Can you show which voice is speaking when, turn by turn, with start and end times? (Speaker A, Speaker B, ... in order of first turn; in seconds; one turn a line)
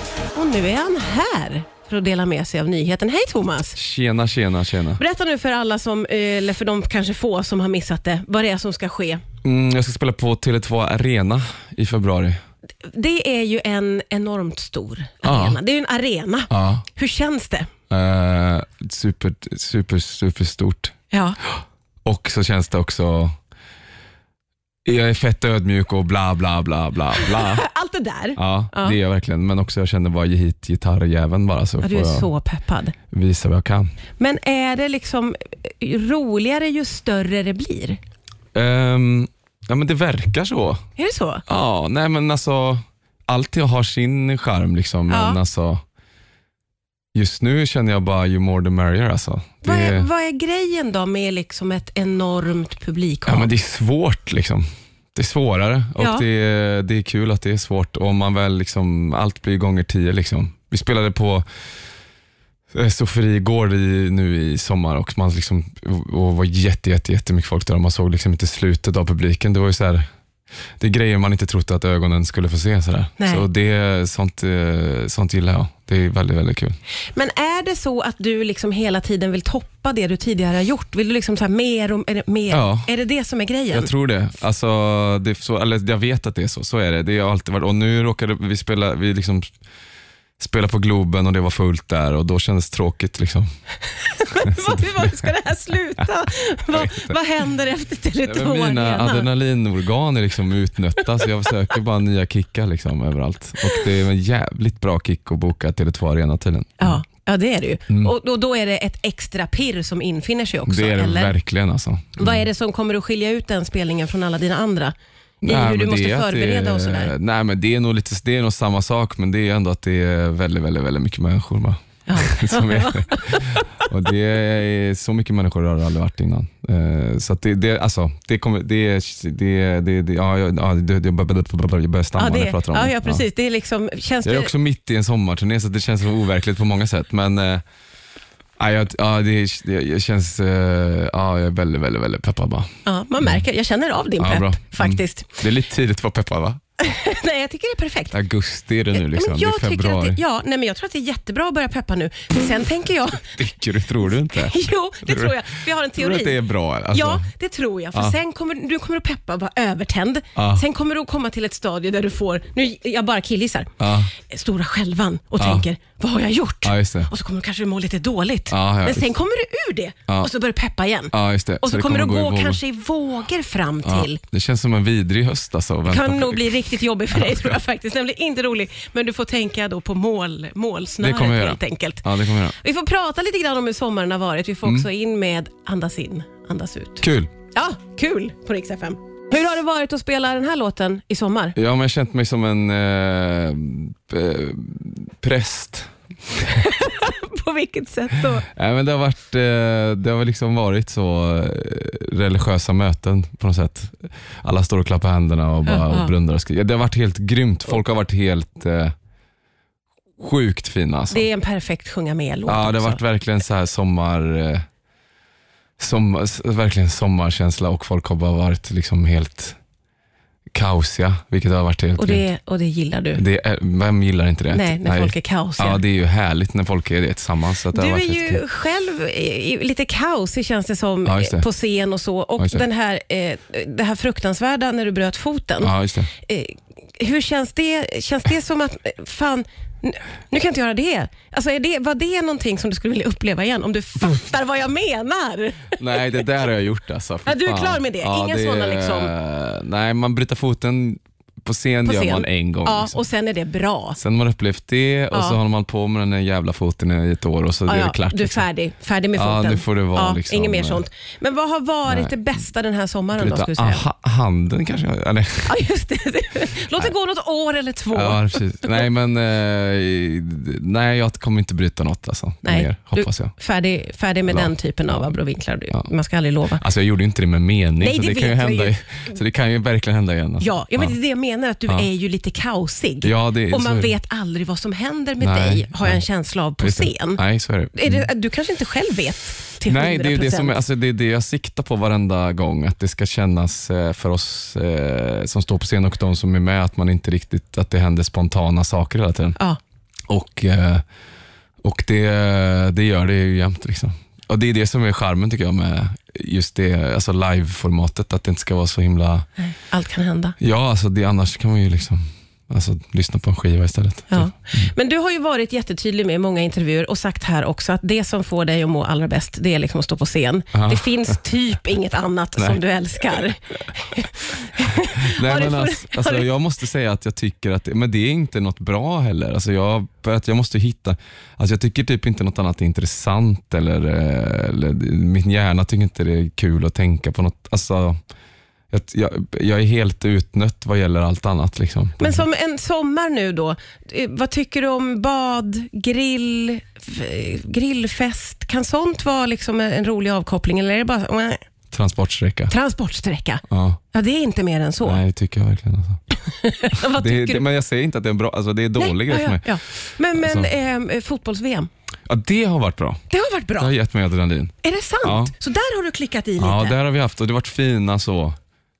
Speaker A: 0.3-3.8
Speaker B: 3.8-5.0
Speaker A: 5.0-9.2
Speaker B: 9.4-12.4
Speaker A: 12.8-17.7
Speaker B: 15.2-15.6
Speaker B: 16.5-16.9
Speaker B: 17.9-20.9
Speaker A: 21.1-21.4
Speaker B: 22.1-23.3
Speaker B: 24.9-27.6
Speaker A: 27.2-29.0
Speaker B: 28.4-32.3
Speaker A: 31.8-33.0
Speaker B: 33.1-33.9
Speaker A: 34.2-38.0
Speaker B: 38.5-40.8
Speaker A: 41.0-41.4
Speaker B: 41.5-45.8
Speaker A: 45.1-45.4
Speaker B: 47.1-50.1
Speaker A: 49.6-53.5
Speaker B: 53.3-61.5
Speaker A: 56.0-56.2
Speaker B: 62.7-70.0
Speaker B: 70.8-76.8
Speaker A: 73.2-73.4
Speaker A: 77.1-83.9
Speaker B: 82.5-82.9
Speaker B: 83.7-89.5
Speaker B: 90.4-93.5
Speaker A: 93.9-99.3
Speaker B: 94.4-95.2
Speaker B: 96.7-97.1
Speaker B: 98.2-107.0
Speaker A: 106.8-111.3
Speaker B: 110.7-112.5
Speaker A: 112.2-114.9
Speaker B: 115.4-133.2
Speaker A: 115.4-117.1
Speaker A: 122.1-123.9
Speaker A: 132.2-134.5
Speaker B: 134.2-137.6
Speaker B: 138.6-142.7
Speaker A: 142.8-145.4
Speaker B: 144.2-146.6
Speaker A: 146.8-148.2
Speaker B: 148.1-150.2
Speaker A: 148.9-153.3
Speaker B: 153.2-155.4
Speaker A: 154.3-156.4
Speaker B: 155.9-157.3
Speaker A: 156.9-174.2
Speaker B: 160.3-160.7
Speaker B: 163.8-164.1
Speaker B: 165.4-165.7
Speaker B: 166.6-167.1
Speaker B: 168.5-169.1
Speaker B: 171.1-172.6
Speaker B: 173.8-177.6
Speaker A: 175.9-191.6
Speaker B: 181.0-182.6
Speaker B: 187.0-187.3
Speaker B: 191.6-196.5
Speaker A: 196.5-198.5
Speaker B: 198.5-208.9
Speaker A: 205.7-206.1
Speaker B: 210.2-211.2
Speaker A: 211.1-213.0
Speaker B: 212.5-214.6
Speaker B: 215.8-219.6
Speaker B: 220.5-222.2
Speaker A: 222.0-223.2
Speaker B: 223.2-228.4
Speaker A: 224.5-225.8
Speaker A: 227.7-246.2
Speaker B: 231.1-231.5
Speaker B: 232.4-232.7
Speaker B: 235.6-236.1
Speaker B: 245.8-253.0
Speaker A: 247.2-249.1
Speaker A: 251.8-254.0
Speaker B: 254.0-258.4
Speaker A: 255.1-255.4
Speaker A: 257.7-263.8
Speaker B: 259.1-260.8
Speaker B: 261.9-262.1
Speaker B: 263.1-265.6
Speaker A: 265.5-268.8
Speaker B: 267.9-273.3
Speaker A: 272.4-276.6
Speaker B: 274.3-275.1
Speaker B: 276.6-281.0
Speaker A: 277.8-278.8
Speaker A: 280.4-287.2
Speaker B: 283.0-283.9
Speaker B: 285.2-286.0
Speaker B: 286.6-288.1
Speaker A: 287.7-290.6
Speaker B: 289.6-299.4
Speaker B: 300.1-300.8
Speaker B: 301.6-309.3
Speaker A: 309.4-310.3
Speaker B: 310.4-314.7
Speaker A: 314.1-326.3
Speaker B: 320.5-320.9
Speaker B: 325.1-338.0
Speaker B: 338.7-342.2
Speaker A: 342.0-351.4
Speaker B: 351.7-352.5
Speaker A: 352.5-355.0
Speaker B: 353.5-353.8
Speaker B: 354.8-356.0
Speaker A: 356.2-357.4
Speaker B: 356.7-359.6
Speaker A: 358.8-361.7
Speaker B: 360.1-360.5
Speaker B: 362.1-363.0
Speaker A: 363.1-363.7
Speaker B: 363.6-365.3
Speaker A: 364.6-366.8
Speaker B: 366.4-368.4